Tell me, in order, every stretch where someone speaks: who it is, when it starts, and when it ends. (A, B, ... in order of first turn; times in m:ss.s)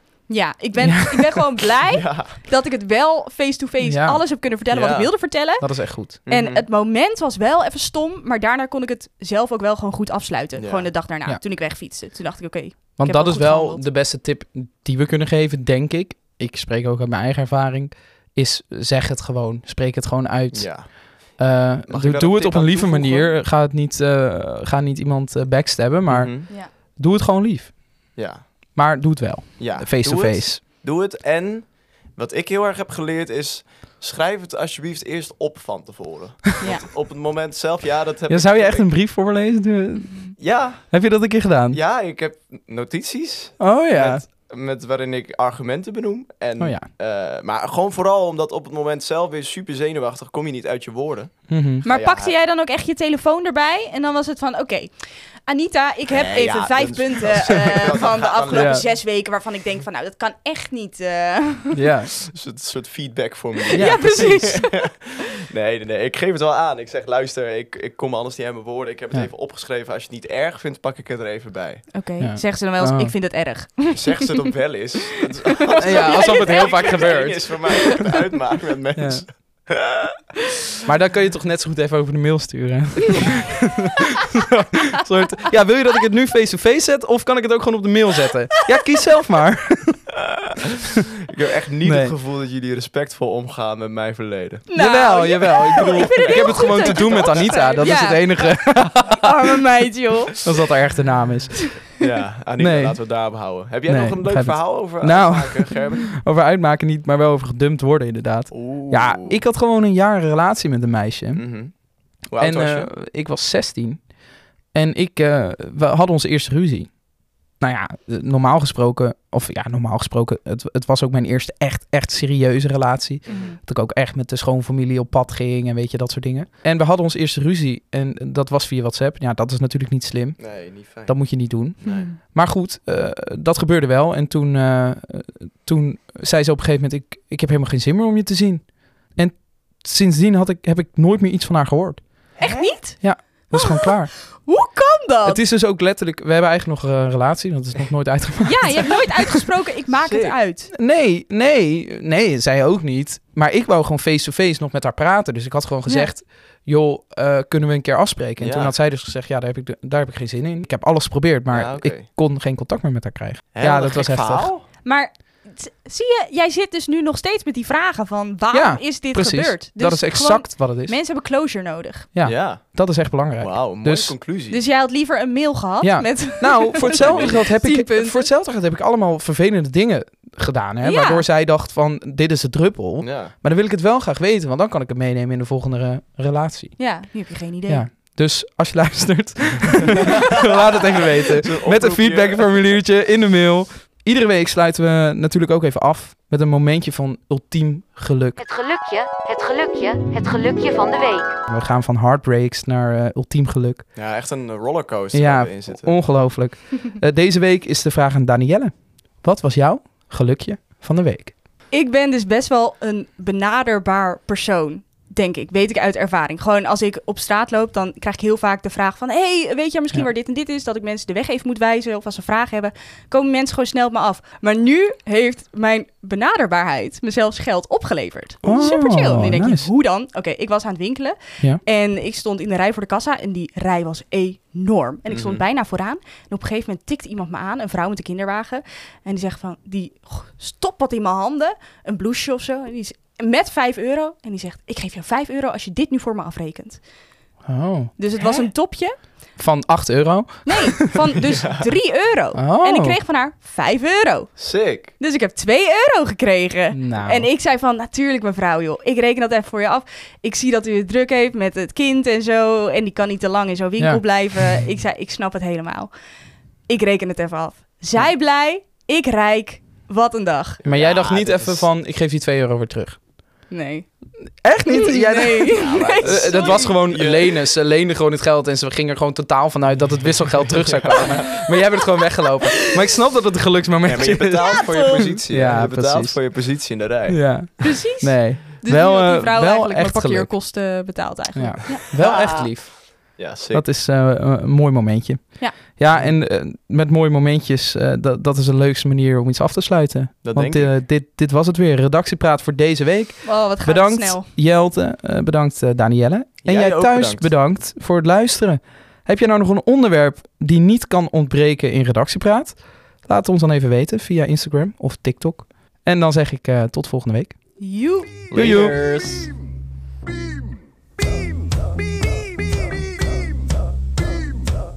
0:00.3-0:13.8 A
0:00.8-0:01.2 B
0:01.9-0:02.4 C
0:03.8-0:04.2 B
0:04.7-0:05.1 C
0:05.6-0:06.2 B
0:06.3-0:06.6 C
0:10.6-0:10.9 C
0:13.0-0:27.8 B
0:20.5-0:21.3 C
0:21.9-0:23.3 C
0:26.1-0:26.5 C
0:28.2-0:28.5 C
0:28.7-0:30.6 B
0:29.6-0:38.9 C
0:38.3-0:41.8 B
0:40.4-0:41.1 C
0:41.7-0:52.3 C
0:43.6-0:44.2 B
0:46.6-0:46.9 B
0:51.5-0:51.8 B
0:51.8-1:01.8 A
0:56.1-0:58.8 C
0:58.5-0:58.8 B
1:01.7-1:02.1 B
1:02.3-1:11.9 C
1:03.7-1:05.0 A
1:03.7-1:04.6 B
1:11.9-1:14.2 A
1:12.2-1:13.1 B
1:13.9-1:20.0 C
1:15.7-1:18.0 A
1:15.8-1:18.0 B
1:18.9-1:19.3 B
1:20.8-1:23.8 B
1:24.9-1:30.1 B
1:31.3-1:34.7 C
1:31.8-1:32.1 B
1:34.7-1:40.4 A
1:34.7-1:39.3 B
1:35.8-1:37.9 C
1:40.4-1:41.8 B
1:42.0-1:46.0 C
1:42.6-1:43.0 B
1:43.8-1:51.5 B
1:48.5-1:49.4 C
1:51.3-1:52.9 C
1:52.4-1:54.1 B
1:54.7-1:57.0 B
1:57.5-2:22.3 B
2:03.2-2:03.5 C
2:03.3-2:03.6 A
2:10.4-2:12.1 C
2:11.8-2:12.2 A
2:22.4-2:22.7 C
2:22.4-2:25.4 A
2:23.0-2:24.1 B
2:25.2-2:29.3 B
2:28.4-2:30.7 A
2:30.0-2:30.4 C
2:30.7-2:44.5 B
2:35.8-2:36.1 A
2:38.4-2:38.7 C
2:41.5-2:42.1 C
2:43.5-2:44.6 C
2:44.8-2:52.1 A
2:48.5-2:51.0 B
2:52.1-2:54.2 B
2:52.2-2:52.8 C
2:53.4-2:54.6 C
2:54.5-2:58.3 A
2:55.8-3:06.9 B
2:56.8-2:57.4 C
3:00.8-3:01.2 A
3:03.0-3:03.3 C
3:06.8-3:07.8 A
3:07.7-3:18.4 B
3:11.4-3:12.5 C
3:18.4-3:21.3 D
3:21.5-3:23.8 B
3:23.9-3:26.0 C
3:25.1-3:31.3 B
3:31.7-4:06.8 A
3:48.4-3:48.8 C
3:48.4-3:49.7 B
3:55.1-3:55.4 C
4:07.4-4:08.4 B
4:08.0-4:09.0 A
4:09.4-4:10.9 B
4:10.4-4:14.3 A
4:11.3-4:11.6 C
4:12.3-4:13.0 B
4:14.4-4:14.9 C
4:15.0-4:25.9 A
4:16.7-4:17.3 B
4:26.7-4:30.6 A
4:30.6-4:31.7 C
4:30.6-4:33.0 B
4:33.5-4:33.9 A
4:34.4-4:46.2 B
4:34.6-4:36.8 A
4:35.6-4:37.4 C
4:40.3-4:41.4 C
4:43.8-4:47.4 C
4:44.4-4:45.2 A
4:47.0-4:50.3 B
4:47.6-4:51.8 A
4:51.3-5:17.4 B
4:52.0-4:52.5 C
4:53.2-4:53.6 C
5:00.2-5:00.7 C
5:03.2-5:04.3 A
5:06.4-5:07.3 C
5:17.6-5:18.1 A
5:18.3-5:18.8 B
5:18.3-5:19.3 C